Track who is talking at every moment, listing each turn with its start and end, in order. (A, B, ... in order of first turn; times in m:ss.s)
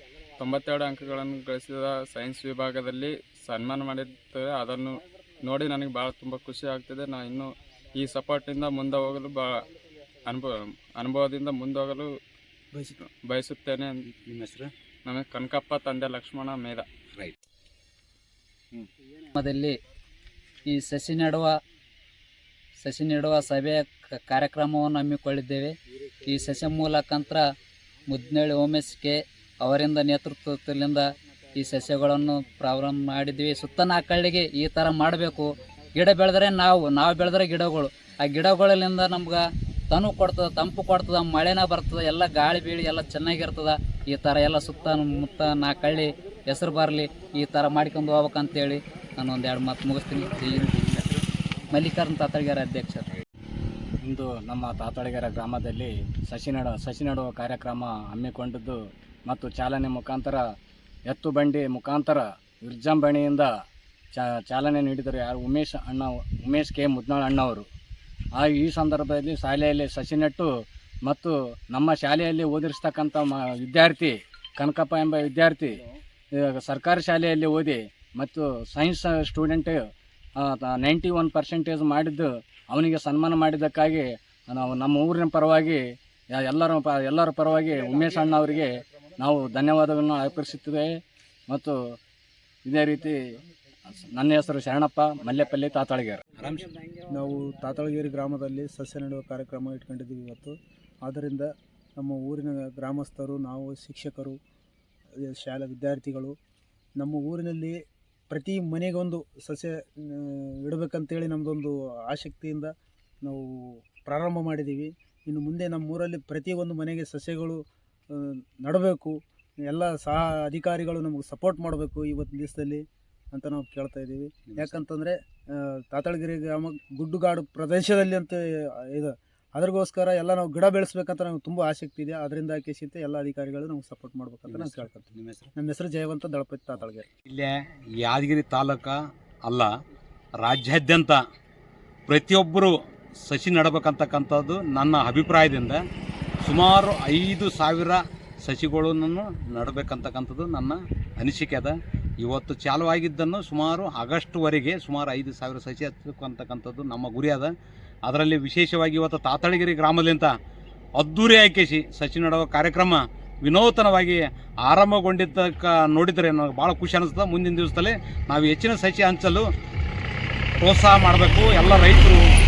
0:00.4-0:09.6 A
0:10.2-0:12.1 A
0:13.3-0:14.0 A
0:14.1-0:14.7 B
0:15.1-0:16.8 A
0:19.3-0:19.8 C
0:20.7-0:21.6 C
0:22.8-0:27.4 C
0:28.1-0:51.0 C
0:50.5-0:51.2 B
0:51.7-0:53.1 C
0:54.0-1:00.4 D
1:01.1-1:03.5 D
1:04.1-1:07.7 D
1:08.4-1:10.5 D
1:11.1-1:15.8 D
1:16.3-1:19.8 D
1:20.4-1:25.8 D
1:26.3-1:30.9 D
1:31.5-1:31.8 D
1:32.7-1:33.2 D
1:33.9-1:36.2 D
1:36.4-1:36.7 B
1:37.1-1:44.4 E
1:45.2-1:46.4 E
1:47.0-2:17.1 E
2:04.5-2:04.8 B
2:14.5-2:15.5 B
2:17.2-2:19.7 B
2:20.4-2:21.2 B
2:22.1-2:25.8 B
2:26.4-2:37.5 B
2:38.1-2:40.3 B
2:41.0-2:49.4 B
2:50.6-2:52.2 B